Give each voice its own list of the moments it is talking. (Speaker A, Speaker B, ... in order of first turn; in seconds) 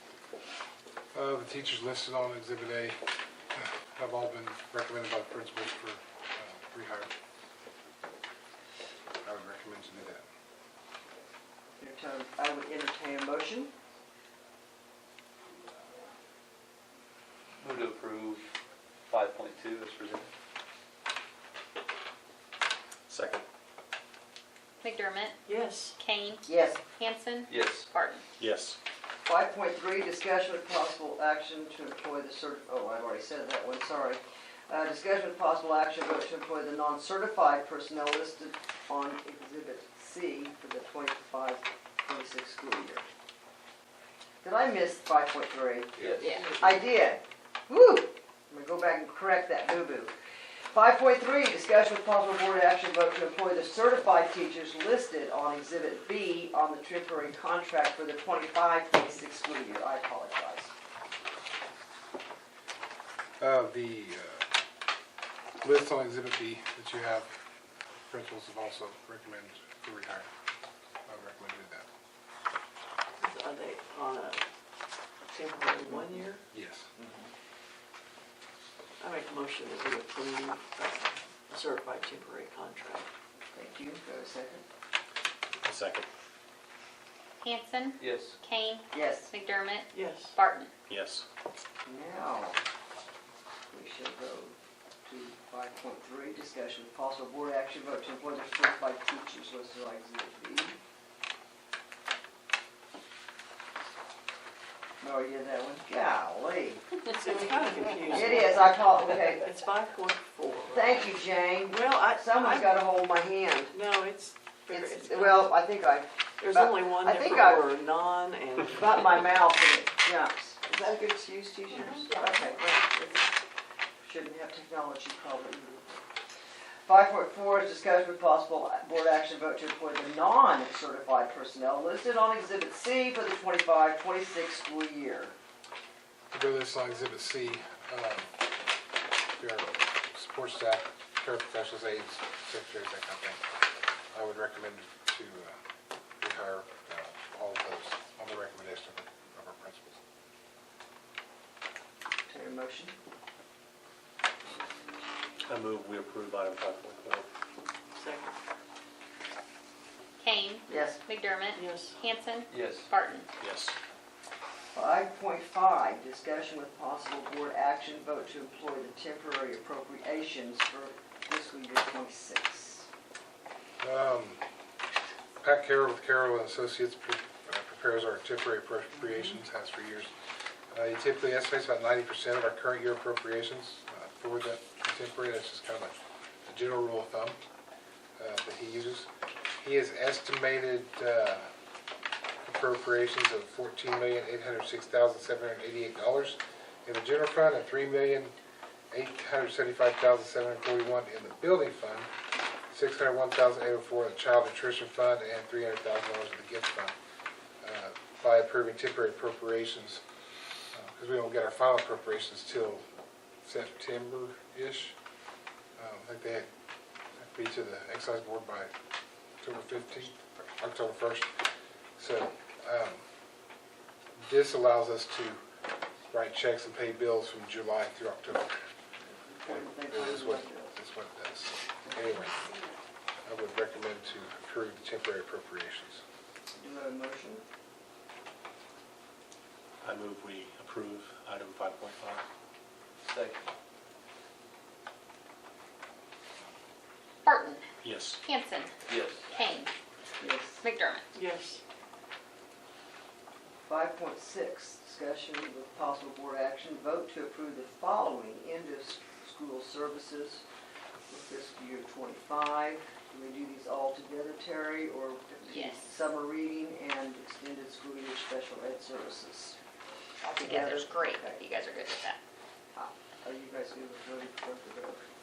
Speaker A: 1.1-3.0, 3.5-7.1, 9.2-10.2, 63.4-64.4, 65.6-67.3, 68.0-70.3, 71.1-71.9, 76.5-76.9, 136.3-138.3, 139.4-143.4, 144.1-145.6, 146.2-150.0, 173.8-174.4, 175.4-180.1, 180.7-187.4, 188.2-191.5, 192.4-198.3, 198.9-202.1, 202.7-206.9, 207.6-210.0, 210.7-212.8, 213.4-215.0, 215.8-216.5, 217.2-218.7, 219.4-221.3, 222.0-223.0, 224.2-225.4, 226.1-228.5, 229.5-232.4, 233.2-236.0
Speaker B: 11.8-13.7, 26.5-26.8, 29.2-43.1, 44.4-50.1, 50.7-60.7, 77.0-77.3, 83.5-84.6, 88.9-89.3, 91.9-92.6, 93.7-100.8, 105.0-106.8, 108.1-109.5, 110.7-113.8, 114.7-117.7, 118.7-123.3, 124.0-126.0, 126.9-135.3, 152.3-152.9, 160.7-161.0, 164.7-172.9, 229.1-230.7, 236.6-237.4, 250.2-250.6, 253.7-260.4, 261.1-269.6, 270.2-271.4, 272.7-275.0
Speaker C: 17.6-18.4, 19.1-20.3, 27.5-27.9, 46.0-46.6, 88.0-88.4, 162.5-162.9, 243.1-243.4, 248.9-249.2
Speaker D: 23.1-23.4, 28.4-28.8, 85.6-86.1, 90.9-91.2, 155.5-157.3, 163.4-163.8, 239.8-242.2, 247.8-248.2
Speaker E: 24.8-25.4, 26.0-28.2, 87.4-90.7, 160.2-163.3, 247.2-247.6, 248.2-249.7, 250.6-251.0, 265.5-265.9, 270.3-272.2
Speaker F: 25.5-26.0, 73.2-74.4, 75.3-76.4, 79.0-83.1, 89.9-90.4, 107.1-111.1, 111.7-112.8, 113.7-115.6, 116.4-119.2, 157.9-158.3, 161.6-162.0, 251.1-251.6